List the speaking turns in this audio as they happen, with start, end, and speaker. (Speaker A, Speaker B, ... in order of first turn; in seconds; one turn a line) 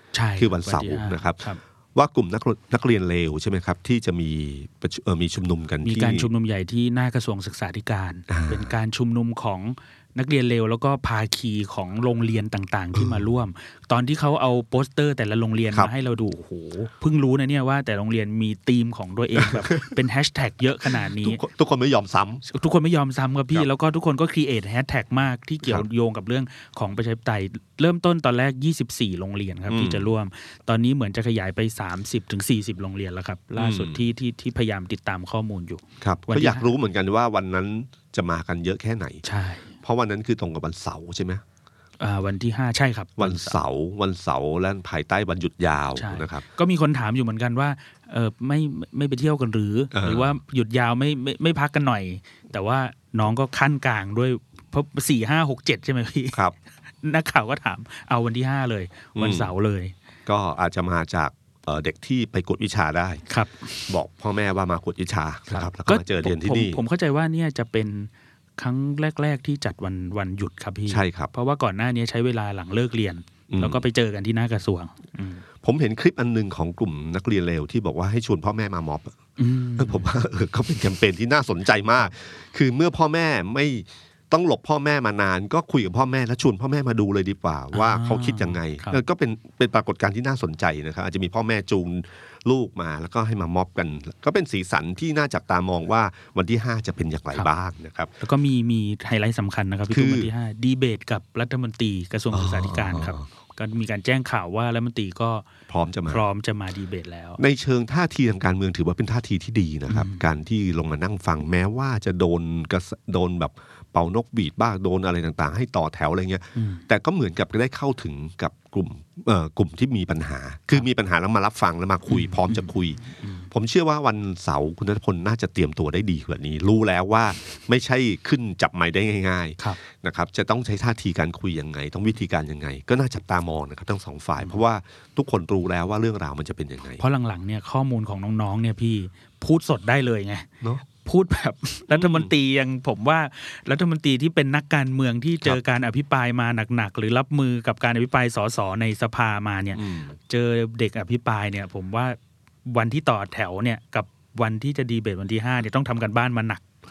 Speaker A: 0.1-1.6
Speaker B: 0.4-6.3
Speaker A: 5.8-21.4
Speaker B: 8.3-8.7
Speaker B: 12.9-13.2
Speaker B: 19.4-19.9
Speaker B: 21.0-22.4
Speaker A: 22.5-36.7
Speaker B: 29.7-30.1
Speaker B: 33.6-34.1
Speaker B: 36.0-39.2
Speaker A: 39.2-39.7
Speaker B: 39.8-41.4
Speaker A: 42.0-43.6
Speaker B: 43.2-46.5
Speaker A: 46.0-56.4
Speaker B: 49.9-50.4
Speaker A: 57.0-59.9
Speaker B: 59.2-59.5
Speaker B: 60.3-63.2
Speaker A: 63.3-63.9
Speaker B: 63.9-66.8
Speaker A: 65.5-75.4
Speaker B: 70.9-71.3
Speaker B: 73.5-73.8
Speaker B: 75.6-79.2
Speaker A: 79.4-80.1
Speaker B: 79.8-98.1
Speaker A: 87.7-89.0
Speaker A: 98.2-105.5
Speaker B: 99.9-100.3
Speaker B: 102.3-103.3
Speaker B: 105.7-106.2
Speaker A: 106.1-107.4
Speaker B: 107.4-137.0
Speaker A: 109.9-110.2
Speaker A: 116.5-116.8
Speaker A: 122.1-123.5
Speaker A: 137.0-156.6
Speaker B: 141.9-142.3
Speaker B: 149.8-150.2